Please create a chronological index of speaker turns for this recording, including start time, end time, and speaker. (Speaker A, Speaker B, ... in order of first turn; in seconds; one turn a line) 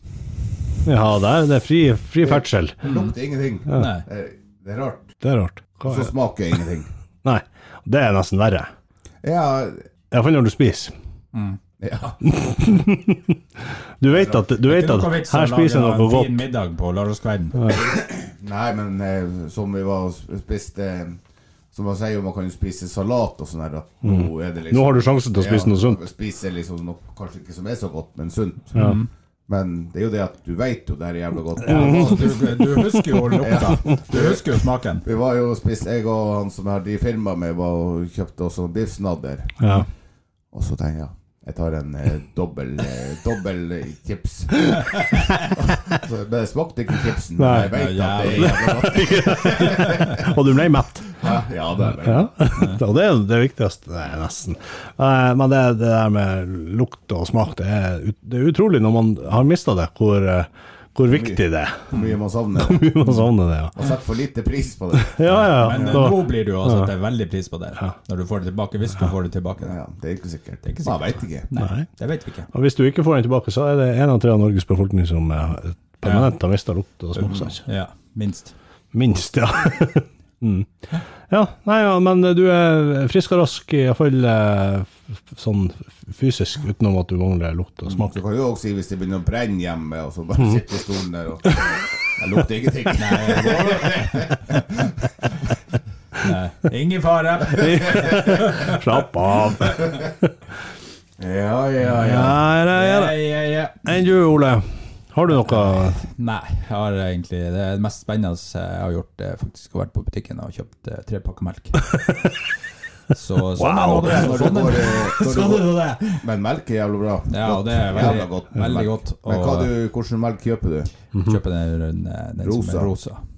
Speaker A: 0.8-2.8
Speaker B: 2.2-5.2
Speaker C: 2.8-3.1
Speaker C: 3.7-4.1
Speaker A: 5.2-6.1
Speaker B: 5.9-6.9
Speaker A: 7.2-8.7
Speaker B: 9.2-9.8
Speaker A: 10.1-10.9
Speaker B: 11.8-12.2
Speaker A: 12.2-13.4
Speaker A: 14.0-16.4
Speaker B: 14.1-14.4
Speaker C: 14.6-17.6
Speaker B: 17.7-21.2
Speaker B: 21.7-28.9
Speaker A: 24.0-26.0
Speaker C: 28.8-29.1
Speaker B: 29.5-32.5
Speaker C: 31.6-35.0
Speaker A: 31.7-33.1
Speaker B: 33.3-39.8
Speaker A: 39.6-39.9
Speaker B: 40.5-45.0
Speaker B: 45.6-50.4
Speaker A: 47.4-51.2
Speaker C: 47.7-48.7
Speaker B: 51.2-52.4
Speaker A: 52.0-61.9
Speaker C: 52.5-52.8
Speaker B: 61.1-63.2
Speaker A: 62.6-63.7
Speaker B: 63.8-66.1
Speaker A: 65.0-66.9
Speaker C: 65.3-69.8
Speaker B: 69.6-71.5
Speaker C: 70.6-72.5
Speaker A: 71.6-71.9
Speaker A: 72.5-77.6
Speaker C: 76.0-76.3
Speaker C: 77.2-78.5
Speaker A: 78.9-80.7
Speaker A: 81.3-88.1
Speaker B: 87.8-95.0
Speaker C: 93.0-94.6
Speaker C: 96.2-98.8
Speaker A: 97.5-100.2
Speaker B: 101.2-102.4
Speaker A: 102.0-103.2
Speaker C: 102.7-103.9
Speaker A: 103.8-106.0
Speaker C: 105.3-112.0
Speaker C: 113.1-116.2
Speaker A: 113.6-114.4
Speaker B: 113.8-120.9
Speaker C: 117.3-119.7
Speaker C: 121.2-123.2
Speaker B: 122.4-122.9